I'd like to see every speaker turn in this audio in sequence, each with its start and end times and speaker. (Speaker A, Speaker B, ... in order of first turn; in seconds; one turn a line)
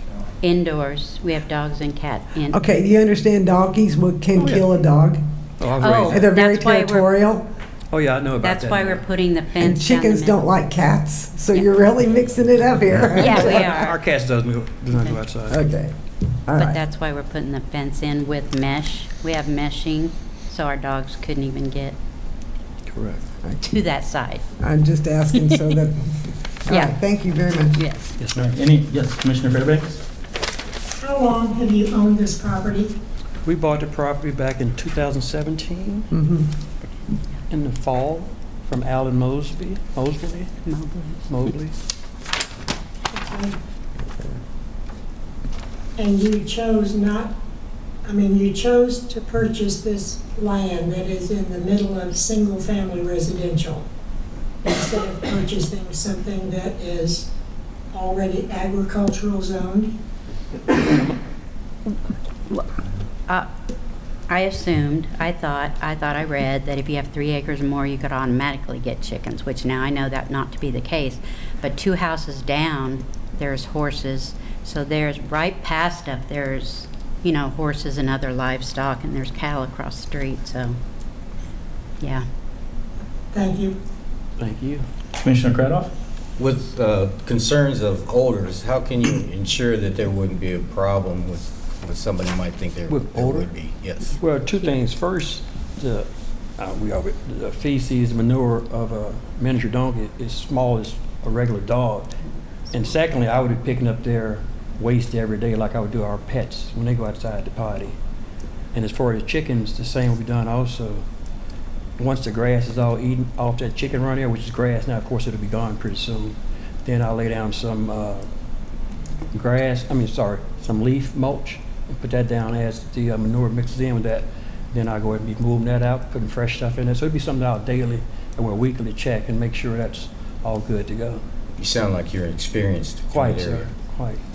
Speaker A: 0.4-2.6
Speaker B: 2.5-5.2
Speaker C: 4.4-4.6
Speaker C: 5.6-6.3
Speaker A: 5.8-7.1
Speaker B: 6.1-7.5
Speaker C: 7.9-9.0
Speaker A: 8.4-10.4
Speaker B: 9.6-13.7
Speaker A: 13.1-14.0
Speaker C: 13.2-15.6
Speaker B: 15.5-15.9
Speaker B: 16.5-16.8
Speaker A: 16.6-21.9
Speaker C: 22.9-23.2
Speaker B: 23.4-23.7
Speaker A: 23.7-24.4
Speaker B: 24.6-27.8
Speaker A: 26.7-26.9
Speaker A: 27.8-28.1
Speaker C: 28.2-28.5
Speaker D: 28.3-30.0
Speaker E: 31.0-32.9
Speaker C: 33.4-36.1
Speaker B: 36.1-36.5
Speaker C: 37.5-40.5
Speaker A: 40.6-41.5
Speaker C: 41.3-41.8
Speaker E: 43.1-43.5
Speaker E: 46.0-47.3
Speaker E: 48.0-53.9
Speaker E: 54.6-57.3
Speaker E: 57.9-60.0
Speaker A: 64.3-80.8
Speaker E: 83.3-83.8
Speaker C: 84.4-84.8
Speaker D: 85.2-85.9
Speaker F: 86.4-94.2
Speaker C: 92.9-93.5
Speaker C: 94.1-102.1
Speaker C: 102.7-108.0
Speaker C: 108.7-111.0
Speaker C: 112.0-118.3
Speaker C: 119.3-131.2
Speaker F: 131.6-133.7
Speaker C: 133.1-134.2